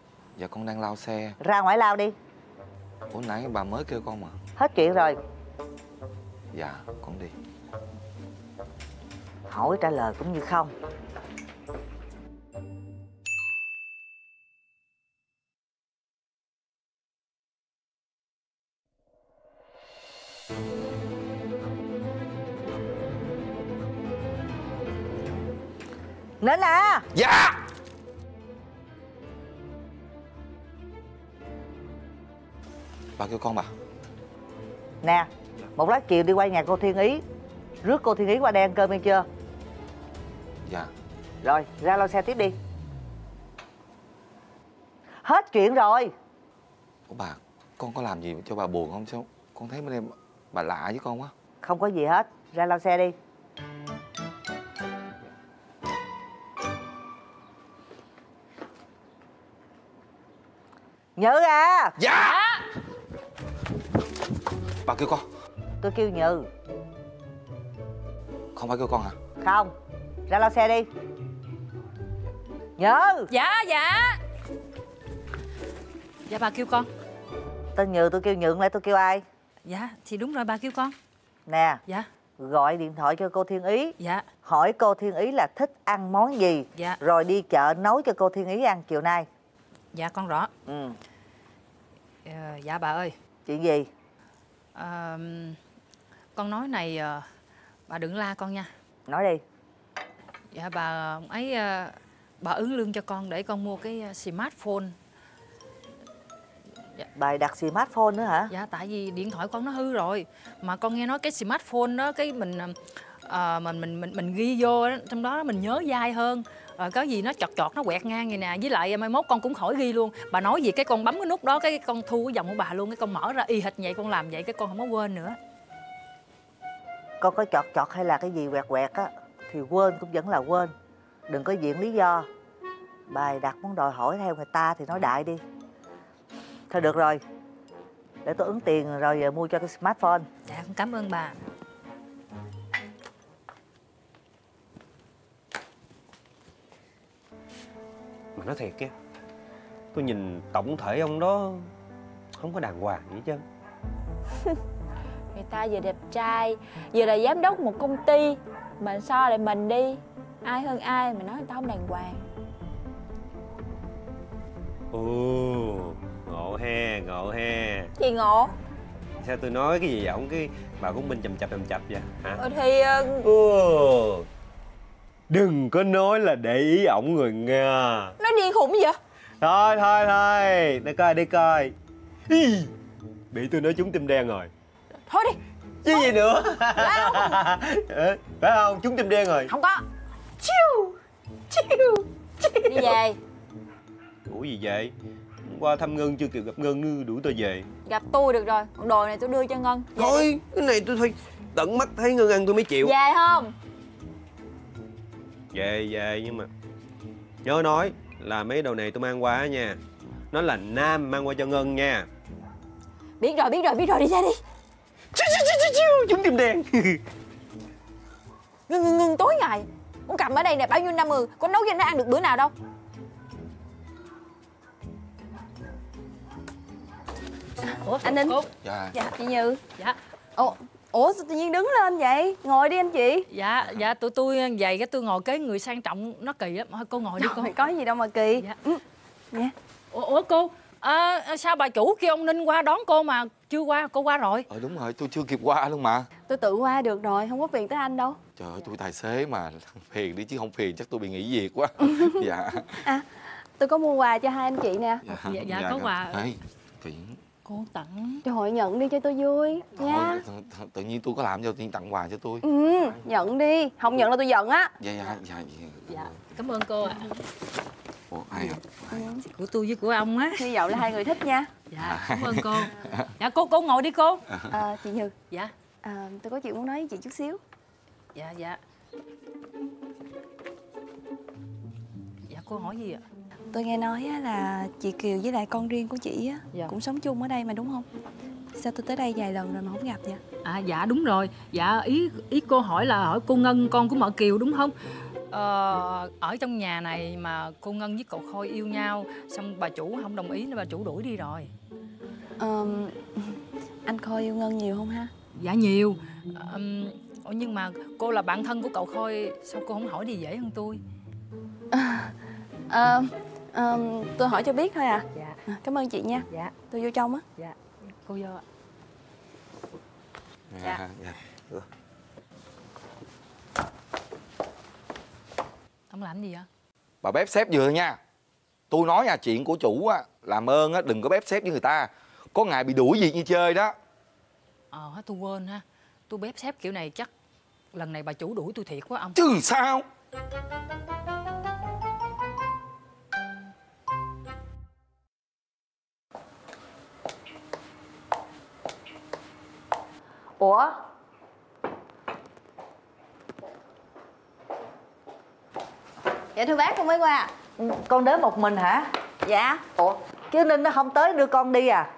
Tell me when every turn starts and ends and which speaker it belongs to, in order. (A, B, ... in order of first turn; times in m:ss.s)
0:00.4-0:01.4 A
0:01.4-0:02.1 B
0:03.1-0:04.4 A
0:04.6-0:05.2 B
0:06.5-0:07.3 A
0:09.5-0:10.7 B
0:26.4-0:27.0 B
0:27.1-0:27.6 A
0:33.2-0:33.7 A
0:35.0-0:37.2 B
0:37.8-0:39.2 B
0:40.6-0:40.9 A
0:41.4-0:42.6 B
0:45.2-0:46.1 B
0:47.1-0:51.3 A
0:51.6-0:53.1 B
1:01.2-1:02.0 B
1:02.0-1:02.4 A
1:02.2-1:02.4 C
1:04.8-1:05.2 A
1:05.8-1:06.5 B
1:08.5-1:09.2 A
1:09.4-1:09.7 B
1:10.3-1:10.9 B
1:12.8-1:13.3 B
1:13.3-1:14.2 C
1:16.3-1:16.9 C
1:17.8-1:19.2 B
1:19.6-1:20.9 C
1:21.5-1:21.8 B
1:22.4-1:29.3 B
1:24.0-1:24.2 C
1:29.9-1:30.5 C
1:30.7-1:31.0 B
1:32.2-1:33.2 C
1:33.4-1:33.9 B
1:34.7-1:35.6 C
1:36.3-1:37.3 C
1:37.9-1:38.7 C
1:39.1-1:39.4 B
1:40.5-1:45.0 C
1:47.2-1:48.5 B
1:48.5-2:05.4 C
2:07.2-2:10.7 B
2:11.3-2:12.3 B
2:13.1-2:15.4 B
2:16.7-2:17.2 B
2:18.2-2:20.3 B
2:20.5-2:21.4 C
2:28.4-2:28.9 D
2:29.9-2:31.7 D
2:32.4-2:33.4 D
2:35.3-2:42.3 E
2:44.9-2:47.9 D
2:48.0-2:48.5 E
2:49.2-2:52.4 D
2:52.4-2:53.3 E
2:53.2-2:54.2 D
2:55.3-2:58.1 D
2:58.2-2:59.0 E
2:59.4-3:01.7 D
3:02.3-3:02.7 D
3:03.3-3:04.5 D
3:05.1-3:05.4 E
3:05.8-3:09.5 D
3:06.8-3:07.4 E
3:09.5-3:09.8 E
3:11.5-3:13.0 D
3:12.7-3:13.2 E
3:14.3-3:14.9 D
3:15.4-3:17.7 D
3:17.8-3:20.3 E
3:20.0-3:22.9 D
3:22.8-3:23.5 E
3:25.5-3:26.5 D
3:27.4-3:29.8 D
3:30.3-3:32.1 D
3:33.2-3:34.4 E
3:35.1-3:37.0 D
3:38.7-3:42.5 E
3:47.6-3:48.4 C
3:48.0-3:49.6 F
3:48.6-3:49.0 A
3:50.4-3:53.3 F
3:53.3-3:57.7 C
3:57.2-3:58.8 F
3:59.9-4:04.5 C
4:04.5-4:06.1 A
4:06.3-4:08.2 F
4:08.4-4:12.8 A
4:11.9-4:12.2 F
4:12.8-4:15.1 F
4:15.0-4:17.2 A
4:15.2-4:16.2 C
4:17.4-4:18.2 C
4:18.2-4:20.2 F
4:19.7-4:22.4 A
4:22.4-4:24.7 F
4:24.8-4:26.2 A
4:26.4-4:27.1 C
4:28.1-4:29.0 A
4:28.9-4:29.2 F
4:29.0-4:30.5 C
4:30.4-4:31.5 F
4:31.7-4:34.2 C
4:31.8-4:33.1 A
4:34.5-4:35.1 F
4:35.8-4:37.4 F
4:38.1-4:38.6 C
4:42.3-4:43.0 C
4:43.5-4:47.9 F
4:48.5-4:50.2 F
4:50.4-4:54.7 C
4:55.3-5:01.5 C
5:02.4-5:05.1 F
5:05.4-5:10.8 C
5:11.7-5:12.1 F
5:12.7-5:17.5 F
5:20.5-5:21.6 A
5:25.9-5:26.5 C
5:27.0-5:28.0 A
5:28.7-5:33.7 A
5:34.7-5:37.1 C
5:37.7-5:39.2 C
5:39.1-5:39.8 A
5:50.4-5:50.7 B
5:56.3-5:57.3 F
5:57.6-5:58.9 B
5:59.2-5:59.6 F
5:59.8-6:01.9 B